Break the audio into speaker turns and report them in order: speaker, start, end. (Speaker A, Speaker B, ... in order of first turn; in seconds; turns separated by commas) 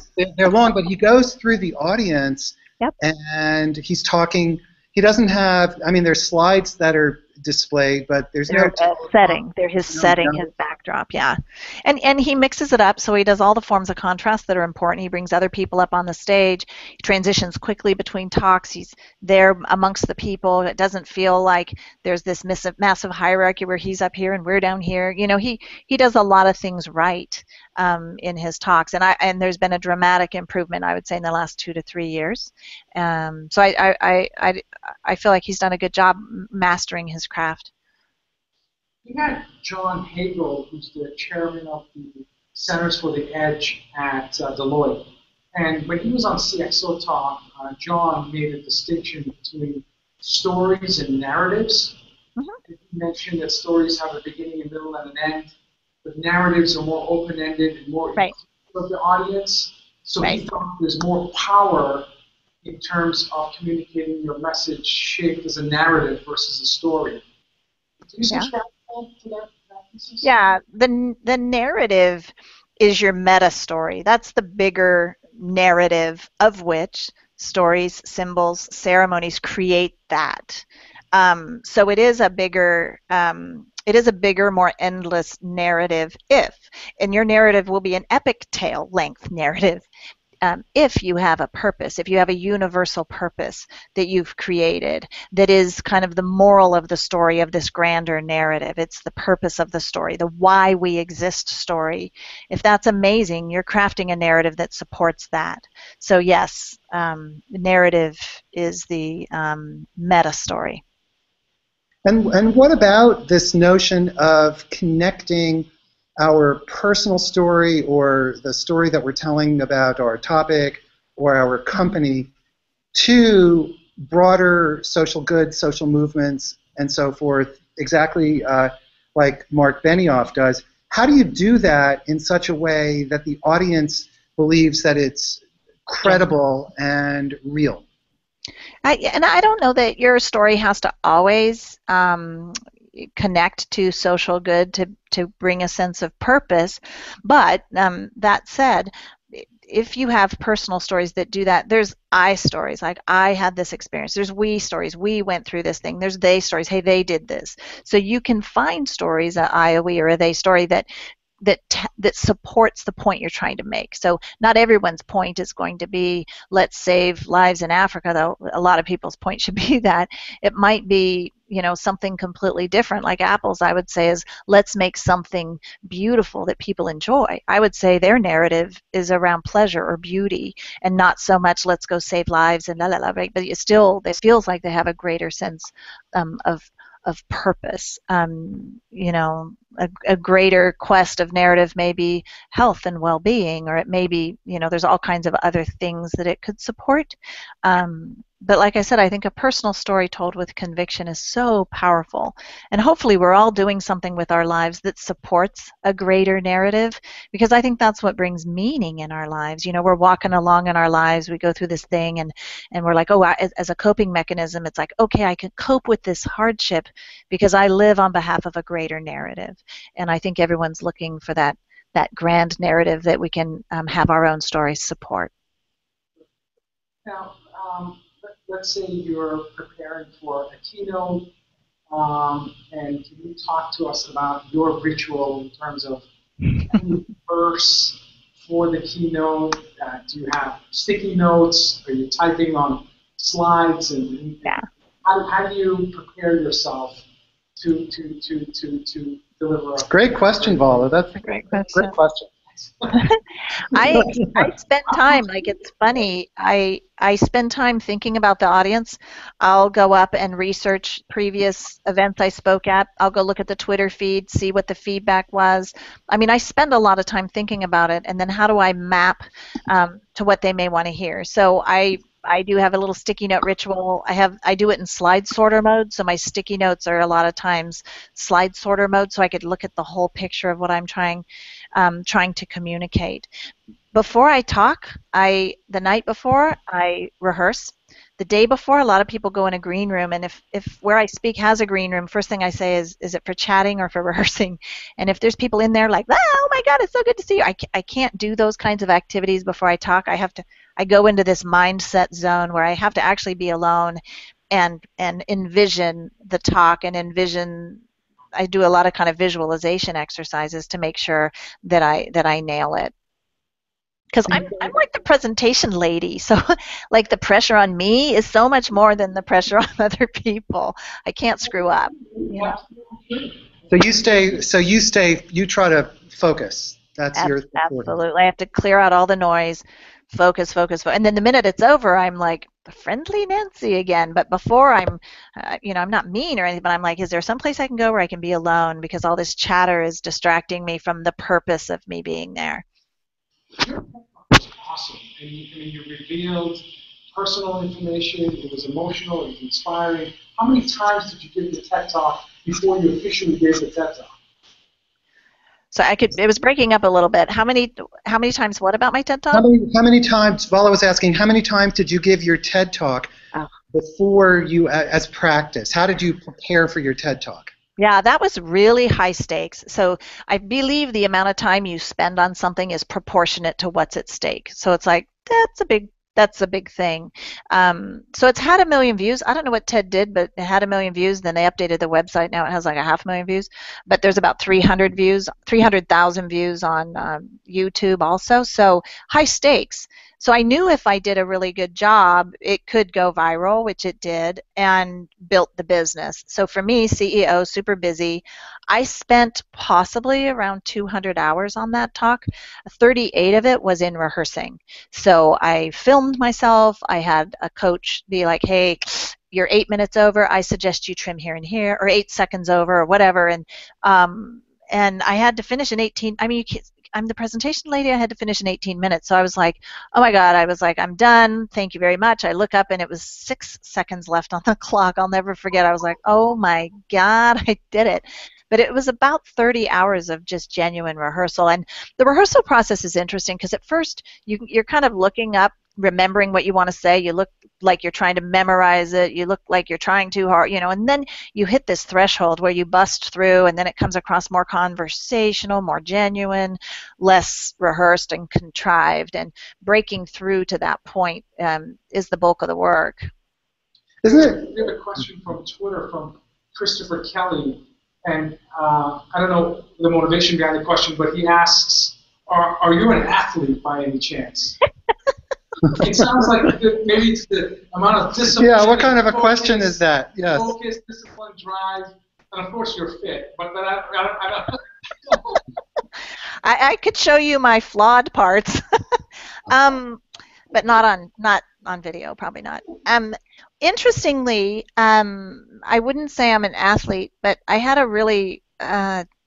Speaker A: 0.2-10.4, Speaker B: 8.5-37.7, Speaker C: 39.0-52.0, Speaker C: 52.7-55.5, Speaker C: 56.0-62.0, Speaker C: 62.6-67.2, Speaker C: 68.1-70.3, Speaker B: 70.2-89.8, Speaker B: 90.4-110.8, Speaker A: 112.0-115.7, Speaker A: 116.2-122.3, Speaker A: 122.9-137.8, Speaker B: 138.8-160.9, Speaker B: 161.4-225.3, Speaker C: 227.0-231.3, Speaker C: 231.9-236.1, Speaker C: 236.6-247.0, Speaker C: 247.6-250.9, Speaker A: 249.9-252.3, Speaker B: 251.2-251.9, Speaker C: 252.6-253.0, Speaker B: 252.9-253.2, Speaker B: 253.7-283.3, Speaker A: 253.9-254.4, Speaker B: 283.9-307.8, Speaker B: 308.4-312.9, Speaker B: 314.1-322.6, Speaker A: 314.3-314.7, Speaker C: 321.6-323.4, Speaker A: 323.7-327.9, Speaker B: 327.1-342.6, Speaker C: 343.6-354.1, Speaker B: 355.7-359.4, Speaker A: 359.3-363.1, Speaker A: 363.7-367.5, Speaker B: 367.8-453.1, Speaker A: 454.0-454.5, Speaker C: 454.1-464.6, Speaker C: 465.7-475.4, Speaker A: 468.3-470.5, Speaker B: 476.4-489.0